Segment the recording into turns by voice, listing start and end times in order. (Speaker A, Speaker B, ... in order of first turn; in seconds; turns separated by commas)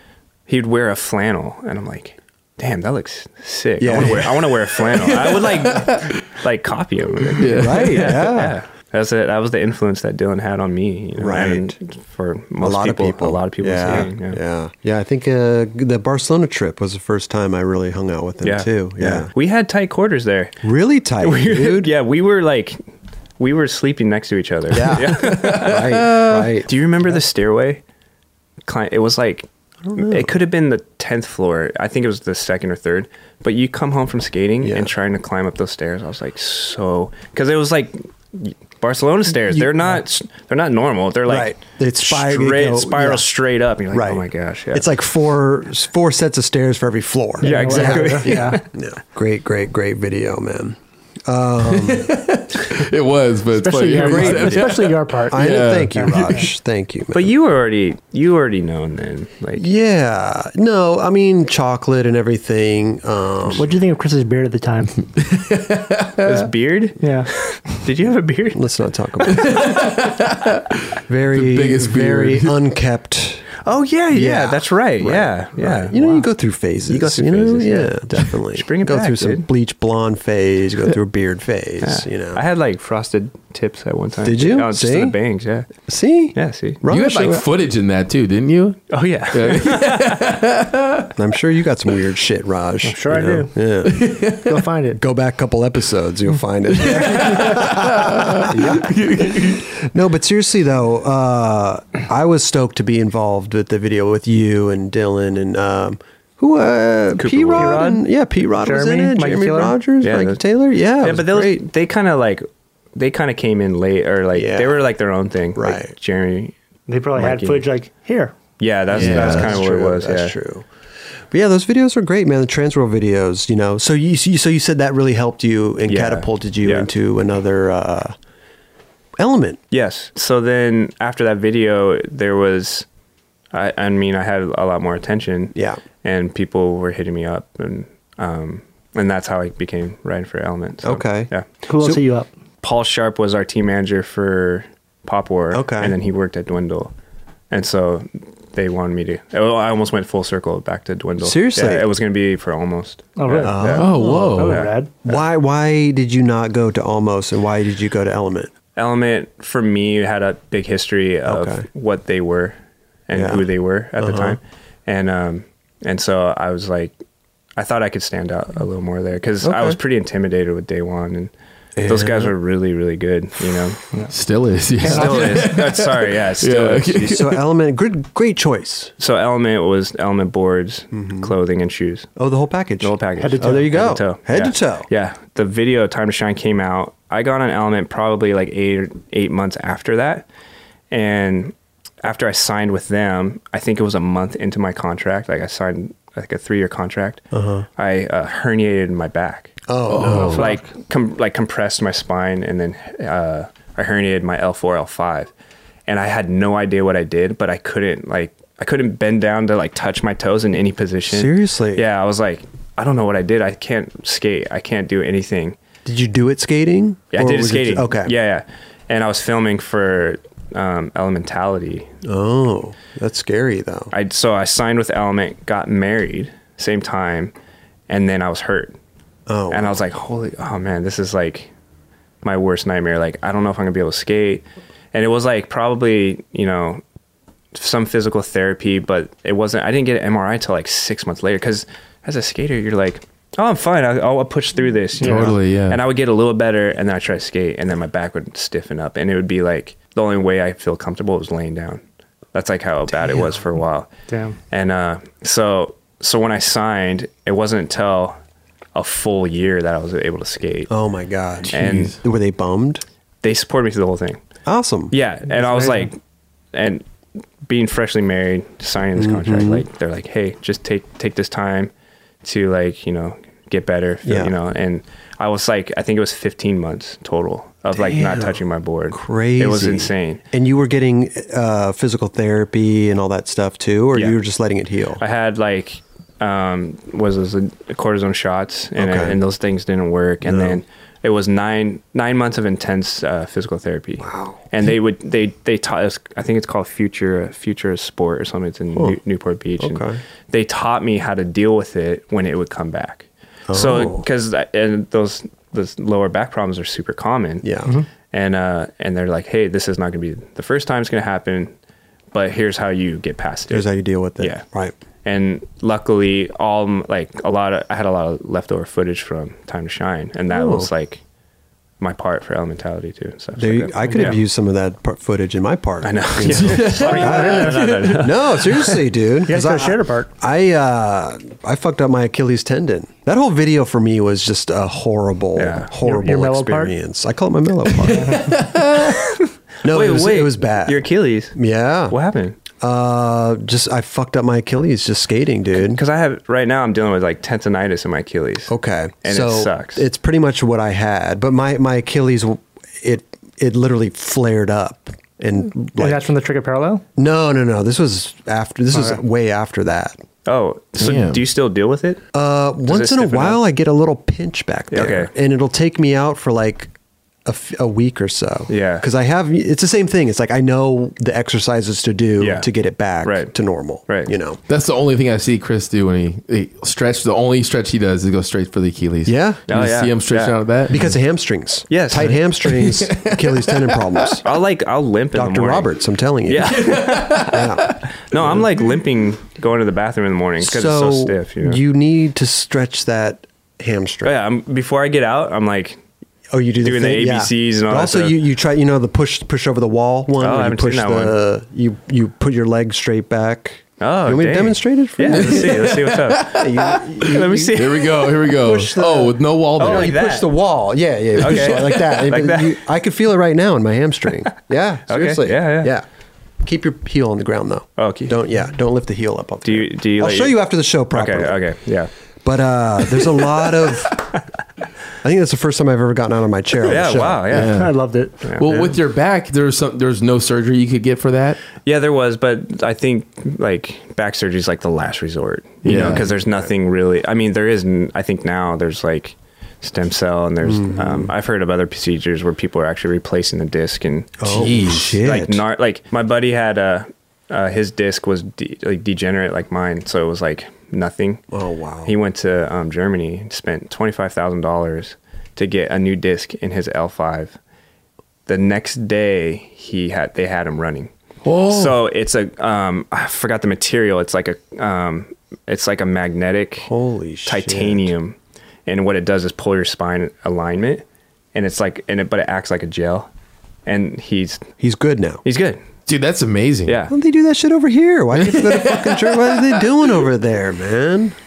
Speaker A: 0.5-14.4, Speaker B: 3.8-4.6, Speaker C: 4.7-6.2, Speaker B: 7.2-8.6, Speaker C: 7.4-8.3, Speaker B: 11.2-11.7, Speaker B: 12.6-19.3, Speaker A: 18.4-20.6, Speaker B: 20.6-21.9, Speaker A: 21.2-22.8, Speaker A: 23.4-27.8, Speaker B: 24.7-27.1, Speaker C: 25.0-26.4, Speaker A: 28.6-44.9, Speaker B: 29.9-30.3, Speaker B: 34.6-34.9, Speaker B: 39.5-40.0, Speaker B: 41.3-43.3, Speaker B: 43.9-52.2, Speaker D: 47.4-48.6, Speaker A: 47.4-48.6, Speaker C: 51.6-56.4, Speaker D: 53.5-56.5, Speaker B: 53.9-57.3, Speaker A: 57.1-59.7, Speaker B: 59.6-63.7, Speaker D: 63.5-64.9, Speaker C: 65.0-66.5, Speaker A: 66.2-68.6, Speaker D: 67.0-67.3, Speaker B: 68.5-69.8, Speaker C: 69.3-72.5, Speaker B: 71.1-73.5, Speaker A: 73.6-76.2, Speaker B: 74.1-82.4, Speaker A: 76.9-79.5, Speaker A: 81.8-85.7, Speaker B: 84.2-85.2, Speaker B: 85.8-87.5, Speaker A: 86.3-86.8, Speaker C: 86.9-91.1, Speaker A: 88.9-90.2, Speaker B: 91.2-94.0, Speaker D: 92.8-93.5, Speaker C: 93.8-94.7, Speaker D: 94.4-95.0, Speaker B: 95.0-111.6, Speaker C: 96.7-99.8, Speaker A: 107.2-107.9, Speaker D: 107.5-109.8, Speaker A: 110.0-110.4, Speaker A: 111.0-116.5, Speaker B: 114.3-114.8, Speaker B: 115.5-115.9, Speaker D: 116.9-118.3, Speaker A: 117.1-117.6, Speaker A: 118.6-120.3, Speaker B: 118.9-128.2, Speaker C: 118.9-119.6, Speaker A: 125.9-126.9, Speaker B: 129.2-129.6, Speaker A: 129.7-132.9, Speaker A: 133.5-141.4, Speaker B: 135.5-135.8, Speaker B: 140.8-142.0, Speaker D: 141.6-142.3, Speaker A: 142.6-146.9, Speaker B: 145.5-145.9, Speaker A: 147.5-154.7, Speaker B: 151.2-151.9, Speaker D: 153.2-155.0, Speaker B: 153.4-158.5, Speaker C: 153.7-154.6, Speaker A: 158.8-162.6, Speaker B: 161.2-161.6, Speaker A: 163.1-166.9, Speaker B: 163.1-163.4, Speaker B: 164.0-164.4, Speaker A: 167.6-171.3, Speaker B: 169.4-169.8, Speaker B: 171.8-172.3, Speaker A: 171.8-173.9, Speaker C: 174.1-177.4, Speaker B: 174.8-175.6, Speaker A: 174.8-177.2, Speaker B: 177.0-178.9, Speaker A: 179.0-182.1, Speaker B: 180.9-181.3, Speaker B: 182.2-184.9, Speaker A: 182.8-190.2, Speaker D: 183.2-183.7, Speaker A: 190.9-197.2, Speaker B: 197.3-197.7, Speaker A: 197.8-205.3, Speaker B: 199.7-200.5, Speaker C: 199.9-200.5, Speaker D: 200.1-200.6, Speaker A: 205.9-215.6, Speaker B: 211.1-211.8, Speaker B: 215.8-218.1, Speaker A: 217.1-221.9, Speaker B: 222.0-223.9, Speaker A: 223.9-227.3, Speaker A: 227.9-228.8, Speaker B: 229.3-229.8, Speaker A: 229.5-231.5, Speaker A: 232.2-236.8, Speaker A: 237.5-251.8, Speaker D: 245.0-245.3, Speaker C: 245.0-245.8, Speaker A: 252.3-253.9, Speaker B: 252.9-253.4, Speaker D: 254.1-254.4, Speaker A: 254.5-258.2, Speaker A: 258.7-260.7, Speaker B: 260.7-262.8, Speaker A: 261.5-261.9, Speaker C: 261.5-262.0, Speaker A: 263.2-264.2, Speaker B: 264.4-264.9, Speaker A: 264.9-266.0, Speaker D: 265.3-265.9, Speaker A: 266.5-266.8, Speaker A: 267.4-271.7, Speaker B: 268.9-269.6, Speaker A: 272.2-280.2, Speaker B: 274.0-274.3, Speaker B: 277.7-278.4, Speaker B: 278.9-285.0, Speaker A: 285.0-307.5, Speaker B: 288.8-289.2, Speaker B: 290.2-290.6, Speaker B: 294.0-294.4, Speaker B: 299.6-300.0, Speaker B: 303.5-304.0, Speaker B: 307.4-307.7, Speaker A: 308.1-311.5, Speaker A: 312.1-313.7, Speaker B: 313.5-314.7, Speaker A: 314.2-314.4, Speaker A: 315.0-321.0, Speaker B: 320.3-320.7, Speaker A: 321.8-324.2, Speaker B: 323.4-338.4, Speaker A: 325.8-328.7, Speaker C: 326.2-328.1, Speaker D: 326.7-327.9, Speaker D: 329.2-330.1, Speaker A: 335.4-335.7, Speaker D: 335.8-336.7, Speaker C: 337.7-338.9, Speaker D: 337.9-338.4, Speaker A: 338.7-341.4, Speaker B: 339.6-341.9, Speaker A: 341.9-342.4, Speaker B: 342.6-345.8, Speaker A: 345.5-349.8, Speaker B: 348.5-356.1, Speaker D: 355.7-356.8, Speaker B: 357.0-359.9, Speaker D: 358.7-359.0, Speaker A: 360.2-362.0, Speaker C: 360.8-361.2, Speaker B: 362.1-366.7, Speaker A: 362.6-363.4, Speaker A: 364.7-365.1, Speaker B: 367.2-374.4, Speaker A: 368.5-368.9, Speaker A: 372.2-372.5, Speaker A: 373.0-373.3, Speaker A: 373.9-374.1, Speaker C: 374.5-380.9, Speaker B: 379.1-379.4, Speaker A: 379.5-380.4, Speaker B: 380.7-384.2, Speaker A: 381.7-382.2, Speaker C: 381.9-384.2, Speaker A: 384.2-385.7, Speaker B: 385.1-386.7, Speaker A: 386.2-391.6, Speaker C: 386.5-387.8, Speaker B: 387.2-388.4, Speaker B: 390.4-394.1, Speaker A: 394.0-395.8, Speaker B: 396.3-415.8, Speaker A: 396.6-398.2, Speaker A: 400.2-401.2, Speaker A: 403.8-406.5, Speaker C: 405.1-409.9, Speaker A: 407.0-408.1, Speaker A: 409.6-410.3, Speaker A: 411.2-412.6, Speaker C: 411.2-411.8, Speaker A: 414.9-415.7, Speaker B: 416.4-421.4, Speaker A: 417.8-418.2, Speaker A: 419.4-420.4, Speaker A: 420.9-421.9, Speaker B: 422.2-424.1, Speaker B: 425.0-427.4, Speaker A: 426.6-427.7, Speaker C: 427.3-427.7, Speaker D: 427.4-428.1, Speaker A: 428.2-428.7, Speaker C: 428.4-431.4, Speaker B: 428.5-428.7, Speaker A: 431.6-451.2, Speaker C: 435.6-436.0, Speaker B: 435.7-436.5, Speaker B: 440.4-441.1, Speaker B: 444.2-445.4, Speaker C: 444.2-444.9, Speaker B: 451.3-451.9, Speaker A: 451.8-457.4, Speaker A: 458.3-460.9, Speaker C: 461.2-461.8, Speaker A: 461.4-466.7, Speaker B: 466.6-467.9, Speaker A: 467.2-473.1, Speaker A: 473.6-474.5, Speaker B: 474.6-475.2, Speaker A: 475.2-475.6, Speaker C: 475.9-476.8, Speaker A: 476.6-476.9, Speaker B: 476.9-481.1, Speaker C: 478.2-480.0